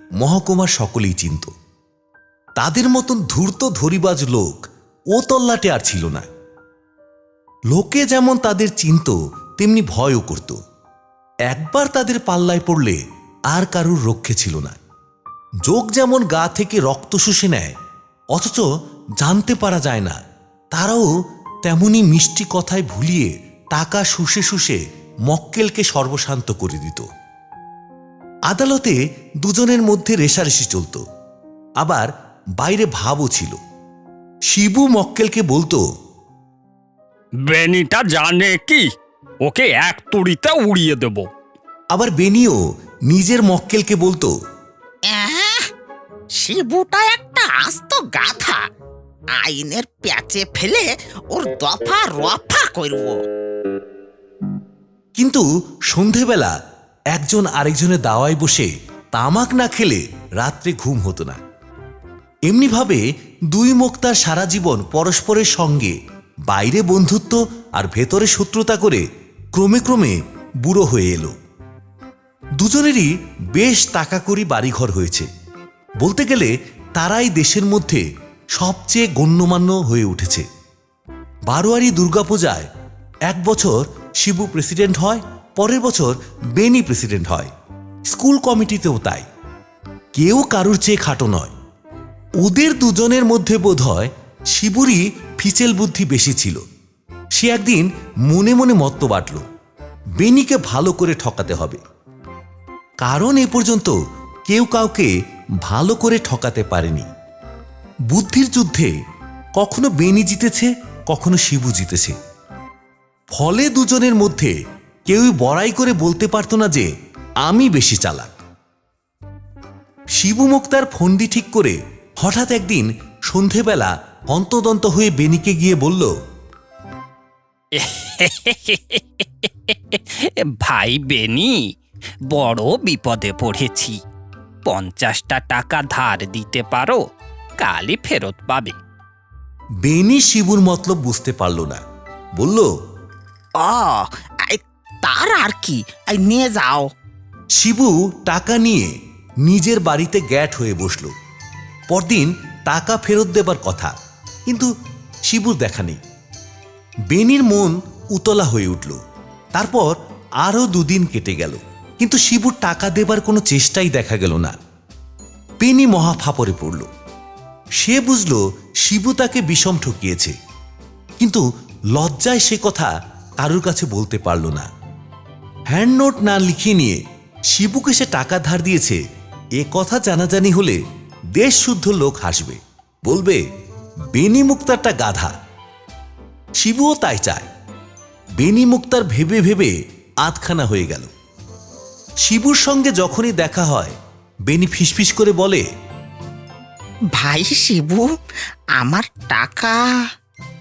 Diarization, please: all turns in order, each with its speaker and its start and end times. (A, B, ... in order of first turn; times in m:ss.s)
0:00.2-0:01.5 A
0:02.6-0:04.6 A
0:05.2-0:06.3 A
0:07.7-0:10.6 A
0:11.5-0:13.0 A
0:13.5-0:14.8 A
0:15.7-0:17.7 A
0:18.3-0:18.7 A
0:19.2-0:20.2 A
0:20.7-0:21.1 A
0:21.6-0:27.1 A
0:28.5-0:31.0 A
0:31.8-0:32.1 A
0:32.6-0:33.6 A
0:34.5-0:35.8 A
0:37.4-0:38.9 B
0:39.4-0:41.3 B
0:41.9-0:42.6 A
0:43.1-0:44.3 A
0:45.1-0:45.7 C
0:46.4-0:48.6 C
0:49.4-0:53.2 C
0:55.2-0:56.6 A
0:57.1-1:01.4 A
1:02.5-1:06.0 A
1:06.5-1:09.0 A
1:09.6-1:11.3 A
1:12.6-1:15.3 A
1:16.0-1:20.5 A
1:21.5-1:22.7 A
1:23.3-1:27.5 A
1:28.1-1:29.3 A
1:30.2-1:31.5 A
1:32.4-1:36.6 A
1:37.4-1:39.4 A
1:40.2-1:41.8 A
1:43.0-1:44.0 A
1:44.5-1:45.1 A
1:45.6-1:47.1 A
1:48.1-1:48.9 A
1:49.6-1:52.2 A
1:53.3-1:54.5 A
1:55.1-1:56.9 A
1:57.4-1:58.3 A
2:00.2-2:06.1 A
2:07.8-2:11.6 B
2:12.3-2:14.0 B
2:14.7-2:17.0 B
2:17.6-2:18.8 B
2:19.8-2:21.8 A
2:22.4-2:22.7 A
2:23.6-2:26.9 C
2:27.6-2:28.9 A
2:29.5-2:31.1 A
2:31.9-2:33.9 A
2:35.3-2:36.0 A
2:37.1-2:39.0 A
2:39.6-2:39.9 A
2:40.4-2:44.5 A
2:45.6-2:46.9 A
2:47.8-2:50.3 A
2:52.0-2:54.7 A
2:55.7-2:57.0 A
2:57.5-2:59.0 A
2:59.6-3:00.8 A
3:01.4-3:03.4 A
3:04.1-3:05.3 A
3:06.6-3:07.5 A
3:08.4-3:09.7 A
3:10.2-3:11.1 A
3:12.3-3:14.0 A
3:14.5-3:15.6 A
3:17.2-3:18.1 C
3:18.8-3:19.8 C